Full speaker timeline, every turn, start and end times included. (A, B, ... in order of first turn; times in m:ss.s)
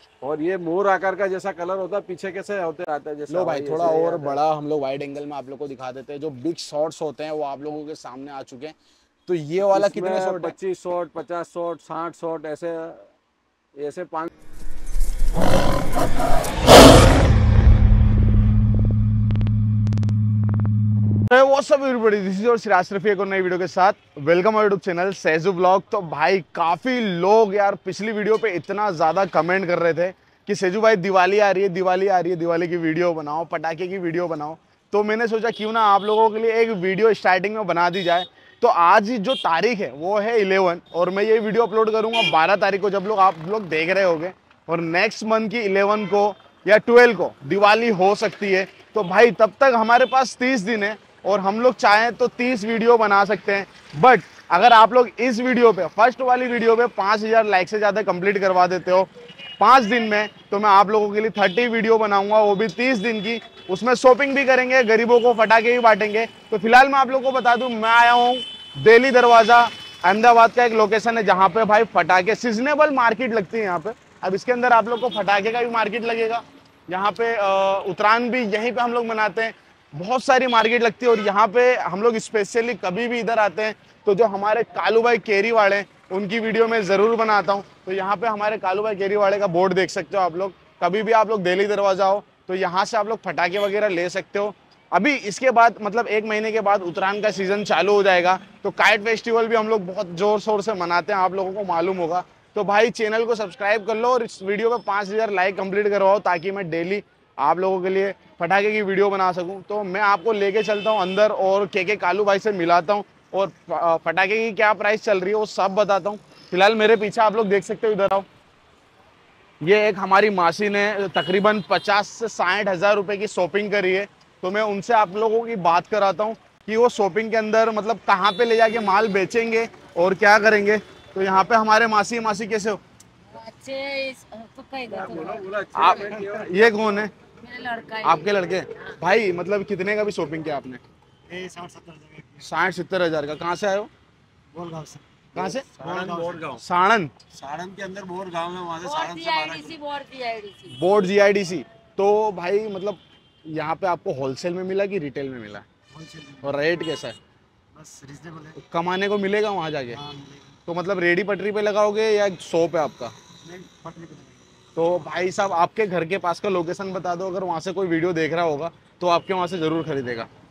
0:00.2-0:04.4 A
0:03.3-0:08.8 B
0:09.3-0:10.5 B
0:09.6-0:13.1 A
0:13.8-0:14.3 A
0:21.3-1:58.3 B
1:59.6-2:12.8 B
2:13.3-2:15.4 C
2:14.9-2:17.0 A
2:15.8-2:17.1 B
2:17.4-2:18.4 C
2:18.0-2:20.8 B
2:21.3-2:22.4 C
2:22.4-2:23.9 B
2:24.5-2:25.3 C
2:25.4-2:25.7 B
2:25.4-2:26.6 A
2:25.8-2:26.4 C
2:26.5-2:27.1 B
2:27.3-2:29.8 A
2:28.8-2:30.8 C
2:30.7-2:35.7 B
2:36.0-2:36.5 C
2:36.4-2:37.2 B
2:37.8-2:38.6 C
2:38.5-2:40.0 B
2:40.0-2:40.5 C
2:40.7-2:43.1 B
2:43.5-2:44.4 C
2:44.8-2:50.3 B